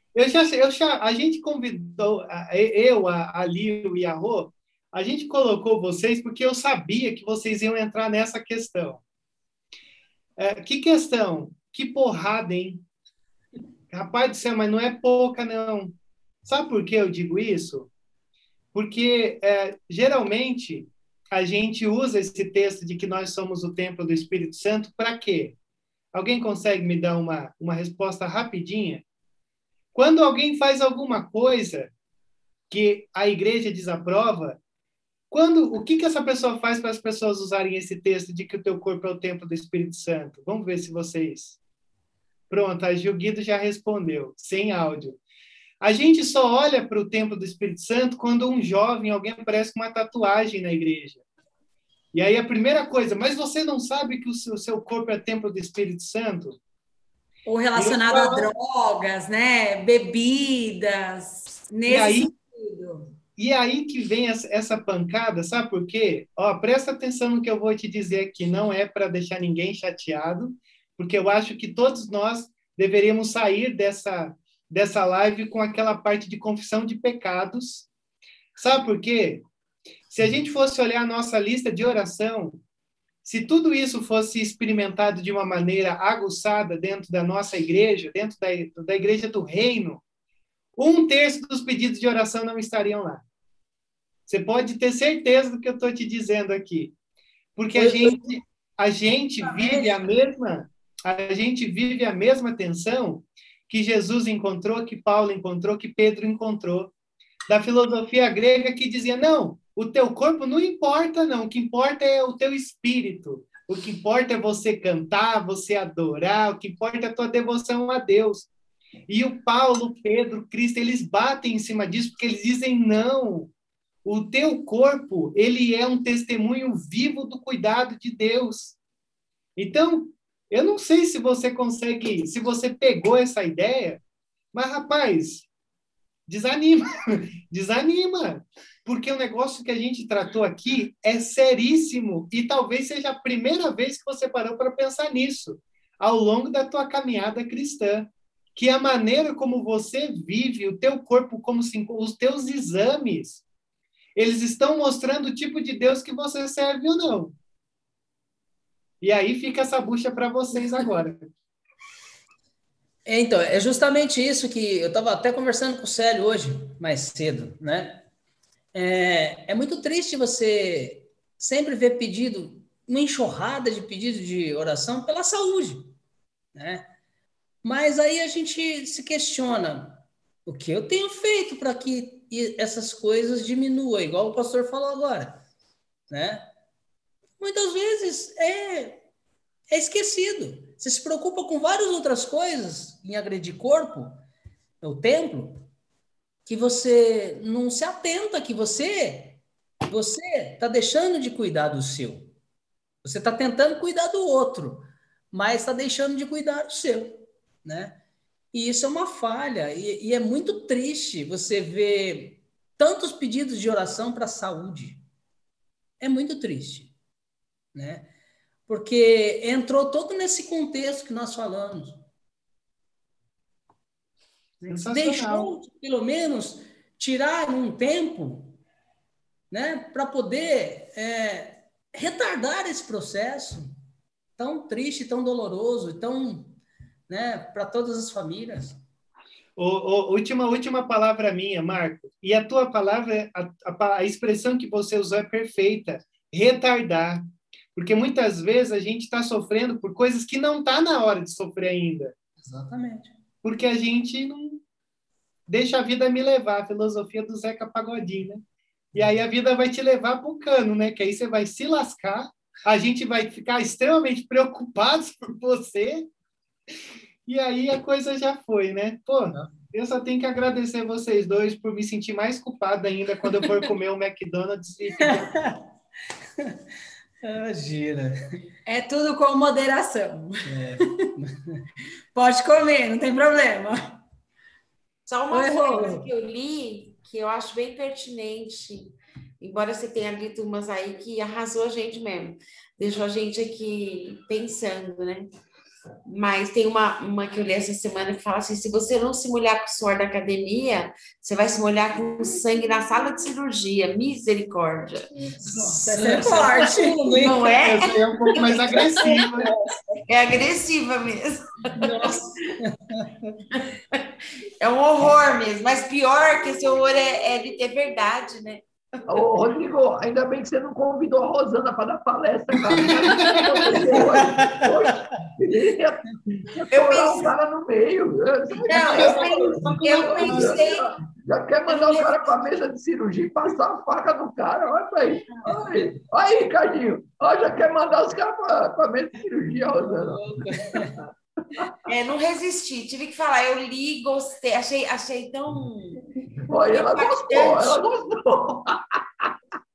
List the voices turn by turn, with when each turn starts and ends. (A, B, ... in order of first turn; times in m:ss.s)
0:00.1-0:09.0 A
0:10.4-0:12.8 A
0:13.9-0:17.9 A
0:18.7-0:25.6 A
0:26.1-0:29.0 A
0:29.9-0:31.9 A
0:32.7-0:34.6 A
0:35.3-0:41.6 A
0:42.5-0:45.2 A
0:45.8-0:51.2 A
0:52.1-0:56.6 A
0:57.4-1:03.1 B
0:57.7-0:58.5 A
1:01.9-1:02.3 A
1:03.4-1:17.9 A
1:18.6-1:19.4 A
1:20.1-1:22.6 A
1:23.2-1:30.0 A
1:30.8-1:33.2 A
1:34.3-1:36.9 A
1:37.6-1:46.9 A
1:37.7-1:38.3 C
1:39.4-1:40.0 C
1:47.5-1:58.5 A
1:59.1-2:03.5 A
2:04.0-2:08.8 A
2:09.6-2:14.0 A
2:14.5-2:15.4 A
2:16.3-2:33.4 A
2:34.1-2:37.3 A
2:39.0-2:41.2 A
2:43.0-2:48.0 C
2:48.7-2:55.9 C
2:56.5-2:56.9 C
2:57.6-3:05.4 C
3:06.1-3:06.4 C
3:07.4-3:09.0 C
3:09.7-3:14.2 C
3:14.8-3:15.6 C
3:16.4-3:22.3 C
3:23.0-3:28.0 C
3:28.5-3:35.0 C
3:36.0-3:36.9 C
3:37.7-3:38.1 C
3:38.7-3:42.0 C
3:44.6-3:48.6 C
3:44.7-3:45.5 A
3:49.5-3:53.7 C
3:54.4-3:56.6 C
3:57.1-3:58.8 C
3:59.6-4:12.1 A
4:12.4-4:13.1 C
4:13.4-4:14.6 A
4:15.5-4:18.4 A
4:18.9-4:26.1 A
4:27.3-4:35.3 A
4:35.1-4:35.6 C
4:37.2-4:38.3 C
4:38.6-4:40.4 B
4:40.4-4:41.6 C
4:42.1-4:44.0 B
4:45.1-4:55.3 D
4:45.3-4:45.6 C
4:56.0-5:05.1 D
5:05.4-5:07.5 C
5:05.8-5:06.8 B
5:06.2-5:09.3 D
5:07.6-5:09.5 A
5:10.1-5:12.3 D
5:11.8-5:12.4 C
5:14.6-5:18.7 D
5:19.1-5:40.5 E
5:26.7-5:27.3 D
5:28.6-5:30.9 D
5:31.7-5:32.6 D
5:40.2-5:40.8 C
5:41.8-5:46.0 D
5:46.5-5:49.3 E
5:46.6-5:47.8 D